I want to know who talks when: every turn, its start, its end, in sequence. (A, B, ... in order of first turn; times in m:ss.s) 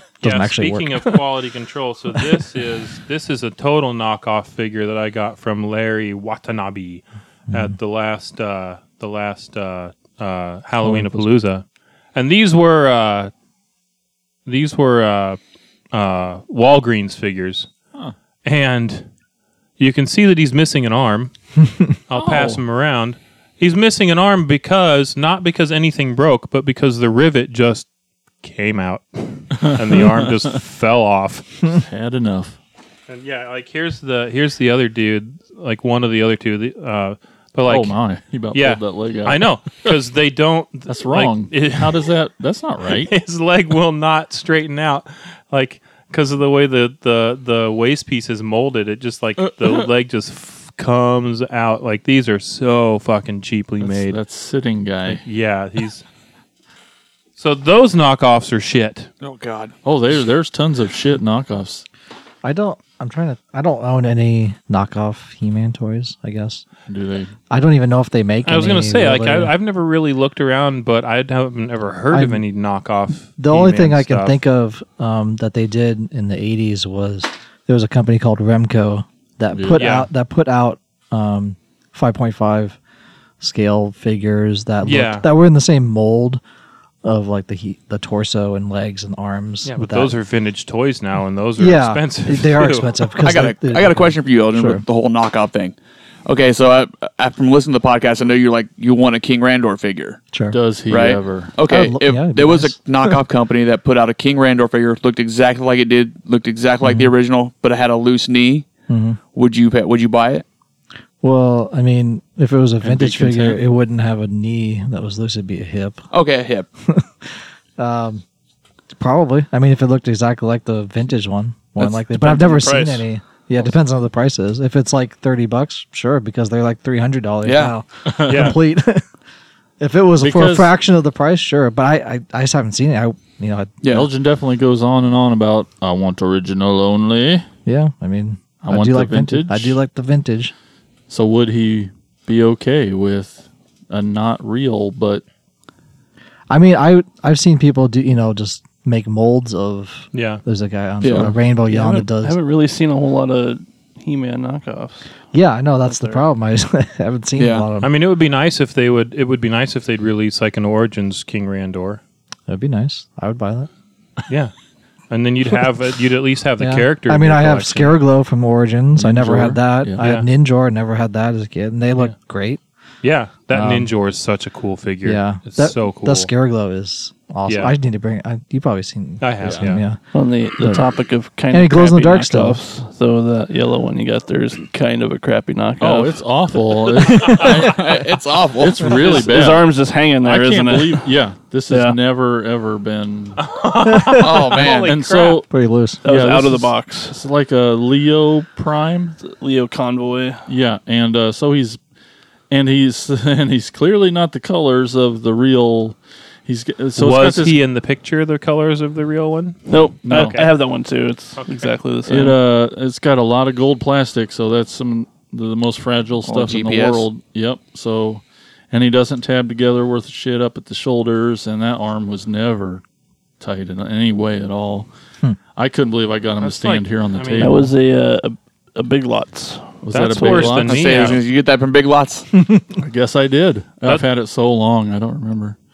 0:00.2-0:01.1 A
0:00.2-0:13.3 B
0:07.5-0:07.7 A
0:10.8-0:11.2 C
0:14.4-0:15.4 B
0:15.9-0:17.7 B
0:18.4-0:19.1 B
0:19.8-0:21.3 B
0:22.1-0:27.9 B
0:22.1-0:22.6 C
0:28.4-0:31.6 B
0:29.5-0:30.5 C
0:31.7-0:32.6 C
0:33.1-0:38.0 B
0:37.6-0:39.9 C
0:38.5-0:42.1 B
0:40.8-0:43.1 C
0:42.9-0:54.2 B
0:49.4-0:49.8 C
0:53.8-0:55.2 C
0:55.0-0:56.0 B
0:57.4-0:59.1 B
0:59.2-0:59.7 D
0:59.8-1:01.8 C
1:02.4-1:06.6 A
1:06.9-1:07.3 C
1:07.5-1:09.5 A
1:08.4-1:14.4 B
1:12.1-1:12.4 A
1:13.4-1:22.8 A
1:19.5-1:19.9 C
1:19.7-1:20.1 B
1:23.4-1:26.4 A
1:24.8-1:25.3 B
1:27.0-1:30.1 A
1:29.6-1:32.9 B
1:31.6-1:34.8 A
1:33.2-1:40.2 D
1:40.5-1:41.5 C
1:40.9-1:48.7 D
1:41.7-1:43.1 A
1:46.8-1:47.1 A
1:48.9-1:49.2 A
1:49.3-1:50.4 D
1:51.2-1:56.0 A
1:52.8-1:53.6 C
1:56.1-1:56.6 D
1:56.8-1:58.2 A
1:59.0-2:09.1 A
2:02.0-2:03.0 E
2:07.4-2:07.7 D
2:08.1-2:08.6 C
2:08.2-2:08.6 B
2:09.8-2:13.7 A
2:10.2-2:10.7 C
2:13.8-2:14.1 D
2:13.9-2:17.4 C
2:17.6-2:20.5 A
2:18.6-2:19.8 C
2:21.1-2:25.2 C
2:26.5-2:32.4 A
2:30.1-2:30.4 B
2:31.0-2:31.3 D
2:31.7-2:35.1 E
2:35.3-2:37.9 A
2:35.8-2:36.2 E
2:37.4-2:37.6 D
2:37.8-2:42.0 B
2:42.5-2:43.7 A
2:45.1-2:48.0 B
2:46.6-2:52.6 A
2:49.0-2:50.0 C
2:50.0-2:50.2 B
2:53.0-2:56.3 B
2:53.5-2:53.9 A
2:55.0-3:00.0 A
2:57.5-2:57.8 B
2:59.2-2:59.8 B
2:59.4-2:59.7 C
3:00.1-3:06.8 E
3:00.6-3:00.9 A
3:01.5-3:02.6 A
3:05.8-3:08.0 C
3:07.4-3:08.9 D
3:08.6-3:09.7 C
3:08.9-3:11.1 E
3:10.2-3:13.4 C
3:11.7-3:12.0 E
3:13.4-3:15.4 B
3:13.9-3:14.2 A
3:14.2-3:14.9 D
3:14.6-3:15.5 C
3:15.5-3:16.0 A
3:16.0-3:17.2 E
3:16.0-3:19.2 C
3:19.2-3:20.5 E
3:20.5-3:21.8 C
3:22.5-3:27.6 C
3:27.0-3:30.5 B
3:29.7-3:32.4 E
3:30.0-3:30.4 C
3:31.4-3:31.7 B
3:32.1-3:42.8 C
3:36.2-3:37.0 D
3:43.4-3:44.9 C
3:45.6-3:47.7 C
3:46.4-3:47.6 B
3:47.4-3:50.6 E
3:49.8-3:51.2 C
3:49.9-3:51.2 B
3:50.6-3:52.3 D
3:52.8-3:55.6 C